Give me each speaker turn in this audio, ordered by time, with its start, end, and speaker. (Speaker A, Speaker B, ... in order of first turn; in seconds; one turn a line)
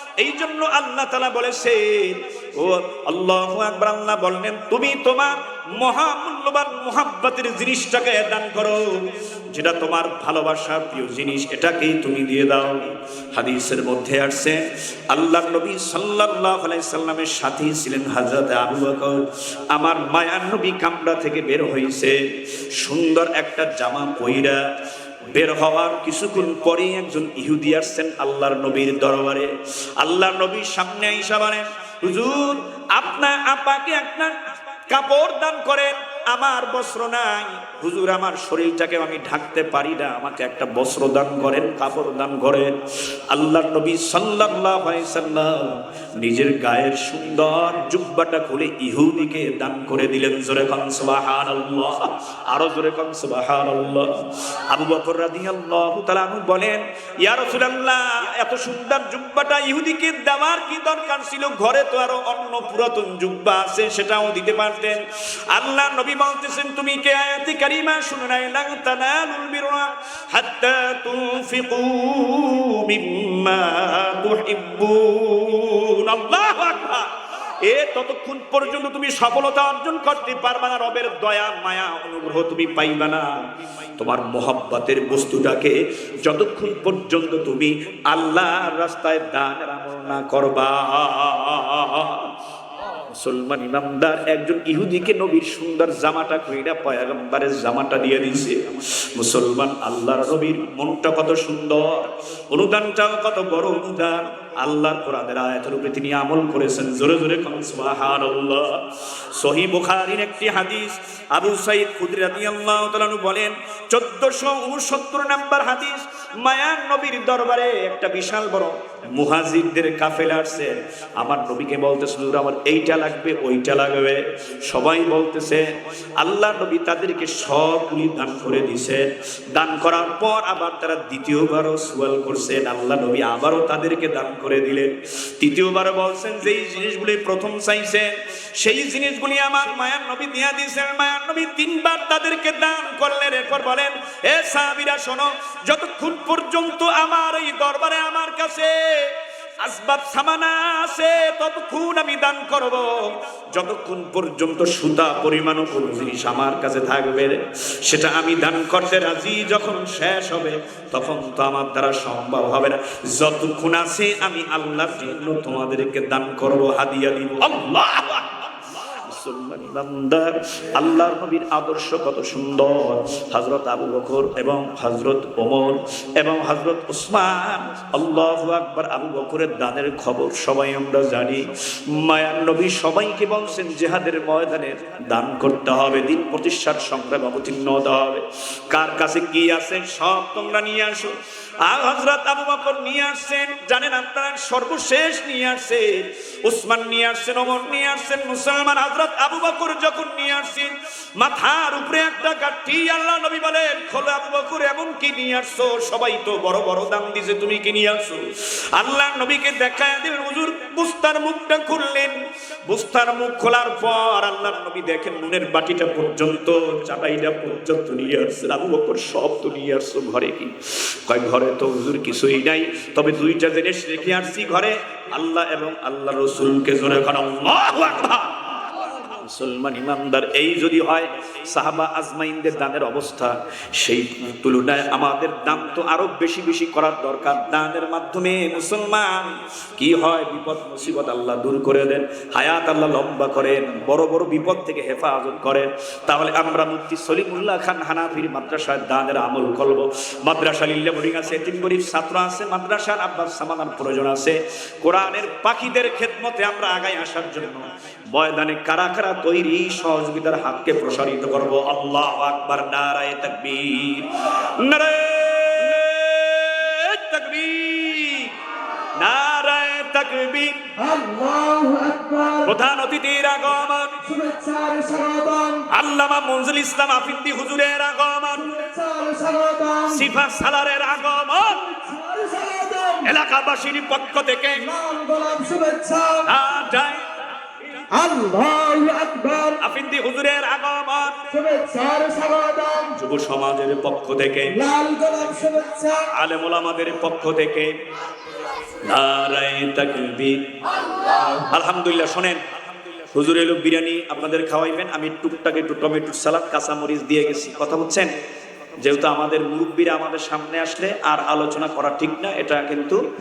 Speaker A: 0.2-22.2
Speaker A: 22.7-24.6
Speaker A: 25.3-42.7
Speaker A: 43.3-77.1
Speaker A: 77.6-83.3
Speaker A: 84.0-92.3
Speaker A: 93.1-268.3
Speaker A: 269.0-270.6
Speaker B: 270.8-272.5
Speaker A: 272.4-274.0
Speaker B: 274.0-275.6
Speaker A: 275.7-278.5
Speaker B: 278.4-280.1
Speaker A: 279.9-281.6
Speaker B: 281.5-283.1
Speaker A: 283.0-284.7
Speaker B: 284.6-286.3
Speaker A: 286.2-287.1
Speaker B: 287.9-289.6
Speaker A: 289.6-291.2
Speaker B: 291.3-292.9
Speaker A: 292.9-294.6
Speaker B: 294.5-296.1
Speaker A: 296.1-297.8
Speaker A: 298.8-302.4
Speaker A: 303.1-308.1
Speaker A: 308.8-313.0